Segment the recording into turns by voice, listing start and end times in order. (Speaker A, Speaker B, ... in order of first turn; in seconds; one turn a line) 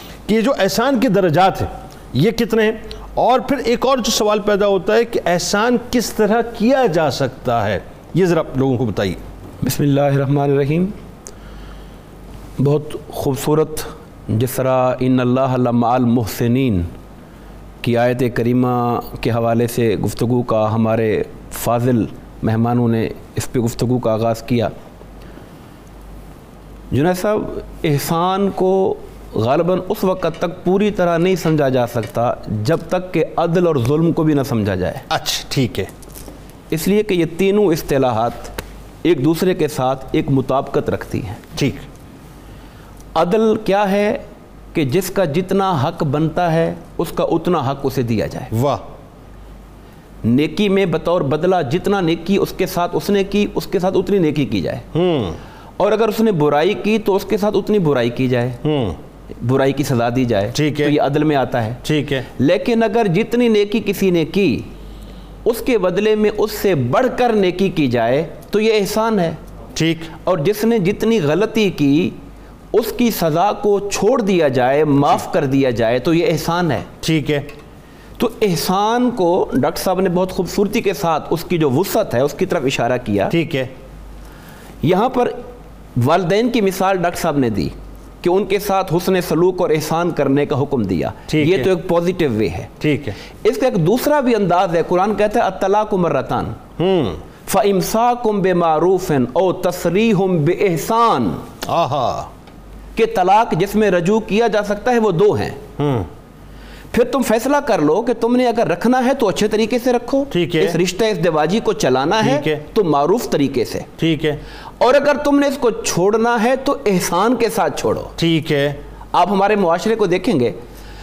Speaker A: 0.3-9.2
Speaker B: 9.6-10.9
Speaker B: 12.6-16.9
Speaker B: 17.8-24.7
Speaker B: 26.9-35.1
Speaker A: 35.1-35.9
Speaker B: 36.7-38.5
Speaker B: 39.0-41.4
Speaker A: 41.5-41.8
Speaker B: 43.1-44.2
Speaker B: 44.7-48.5
Speaker A: 48.5-48.8
Speaker B: 50.2-54.9
Speaker A: 54.9-55.4
Speaker B: 55.8-58.6
Speaker A: 58.6-59.0
Speaker B: 59.4-64.7
Speaker A: 60.5-61.0
Speaker A: 61.8-62.3
Speaker B: 65.5-69.4
Speaker A: 69.8-70.1
Speaker B: 70.2-72.2
Speaker B: 72.7-76.9
Speaker A: 77.0-77.5
Speaker B: 78.2-83.3
Speaker A: 83.3-83.7
Speaker B: 84.8-85.3
Speaker B: 86.0-92.7
Speaker A: 91.3-91.7
Speaker A: 92.8-93.2
Speaker B: 93.4-96.6
Speaker A: 96.8-97.2
Speaker B: 97.5-101.5
Speaker A: 101.6-102.3
Speaker B: 103.0-105.6
Speaker A: 105.8-106.1
Speaker B: 106.9-113.9
Speaker A: 110.3-110.8
Speaker A: 112.2-112.6
Speaker A: 114.0-114.4
Speaker B: 114.8-118.1
Speaker A: 118.2-118.8
Speaker B: 119.1-120.6